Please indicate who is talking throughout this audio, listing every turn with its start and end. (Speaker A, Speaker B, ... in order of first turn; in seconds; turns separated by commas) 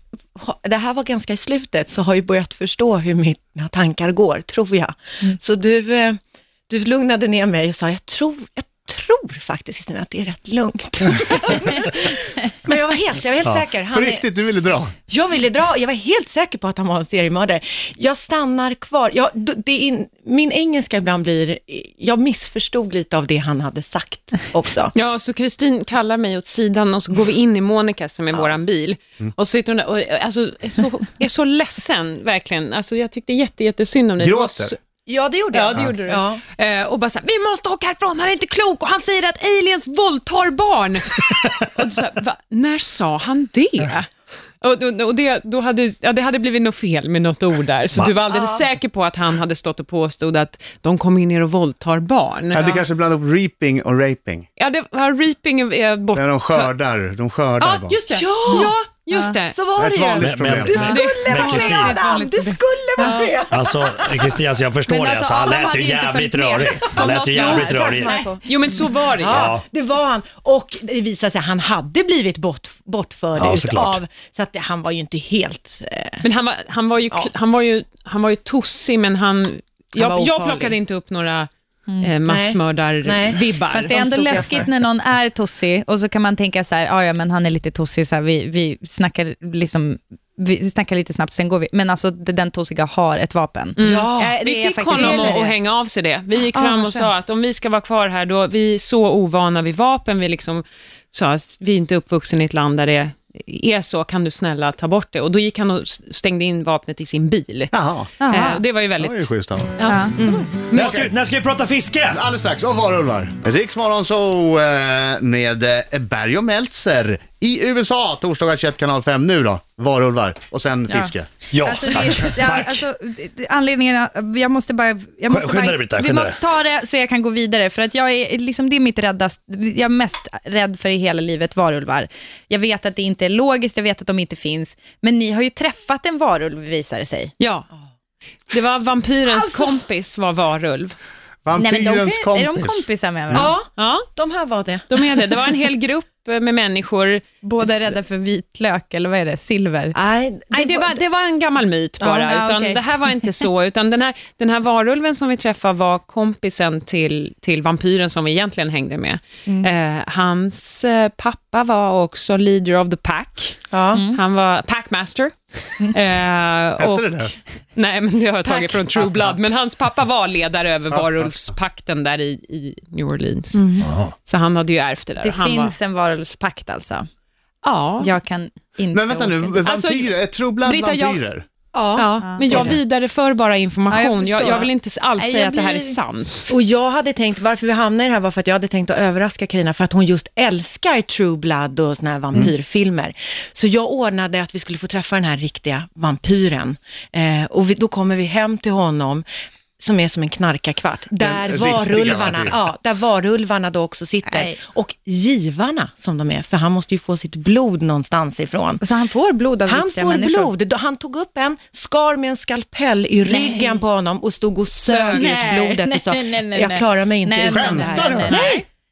Speaker A: 0.3-6.2, Speaker A: 6.7-14.2, Speaker B: 13.9-14.9, Speaker A: 15.1-24.9, Speaker C: 24.9-34.7, Speaker B: 34.2-34.7, Speaker A: 35.1-36.4, Speaker C: 35.5-44.1, Speaker C: 44.6-52.8, Speaker A: 48.3-48.6, Speaker B: 52.5-54.5, Speaker C: 54.6-56.7, Speaker B: 56.1-58.0, Speaker C: 57.6-59.5, Speaker A: 58.1-58.7, Speaker A: 59.5-63.9, Speaker B: 59.7-60.9, Speaker D: 60.2-62.0, Speaker C: 60.7-63.4, Speaker D: 63.5-68.2, Speaker E: 64.9-68.4, Speaker A: 67.2-76.3, Speaker C: 68.4-69.5, Speaker D: 69.2-69.6, Speaker D: 73.3-74.0, Speaker C: 76.2-84.5, Speaker A: 80.0-80.7, Speaker A: 82.2-84.7, Speaker E: 83.7-95.6, Speaker C: 93.8-111.1, Speaker A: 93.8-95.5, Speaker E: 96.5-97.1, Speaker B: 107.7-108.1, Speaker E: 108.2-108.6, Speaker B: 109.0-109.8, Speaker E: 109.8-110.2, Speaker D: 110.7-112.2, Speaker B: 110.8-111.1, Speaker B: 112.1-121.3, Speaker D: 121.5-122.8, Speaker E: 121.6-137.3, Speaker D: 125.3-126.4, Speaker C: 137.4-137.7, Speaker C: 138.5-140.9, Speaker E: 139.3-139.6, Speaker B: 141.4-143.5, Speaker E: 141.6-143.6, Speaker A: 143.3-145.0, Speaker C: 143.8-144.1, Speaker C: 144.9-148.0, Speaker E: 147.4-149.9, Speaker A: 149.9-151.0, Speaker C: 150.5-165.3, Speaker E: 152.0-153.1, Speaker A: 163.7-164.0, Speaker E: 163.9-164.2, Speaker C: 165.9-167.1, Speaker B: 166.8-167.3, Speaker C: 167.7-173.7, Speaker A: 168.4-168.7, Speaker A: 173.5-173.9, Speaker D: 173.8-174.1, Speaker C: 174.2-175.7, Speaker E: 175.2-177.1, Speaker C: 177.6-178.1, Speaker E: 178.0-179.6, Speaker B: 178.9-181.4, Speaker C: 179.6-181.2, Speaker A: 181.7-182.8, Speaker C: 181.9-186.5, Speaker E: 182.2-182.6, Speaker E: 183.9-186.0, Speaker A: 186.5-199.2, Speaker A: 199.8-208.8, Speaker B: 201.2-202.5, Speaker E: 208.8-210.5, Speaker A: 209.6-218.4, Speaker E: 213.2-213.8, Speaker E: 214.8-218.6, Speaker B: 217.5-218.5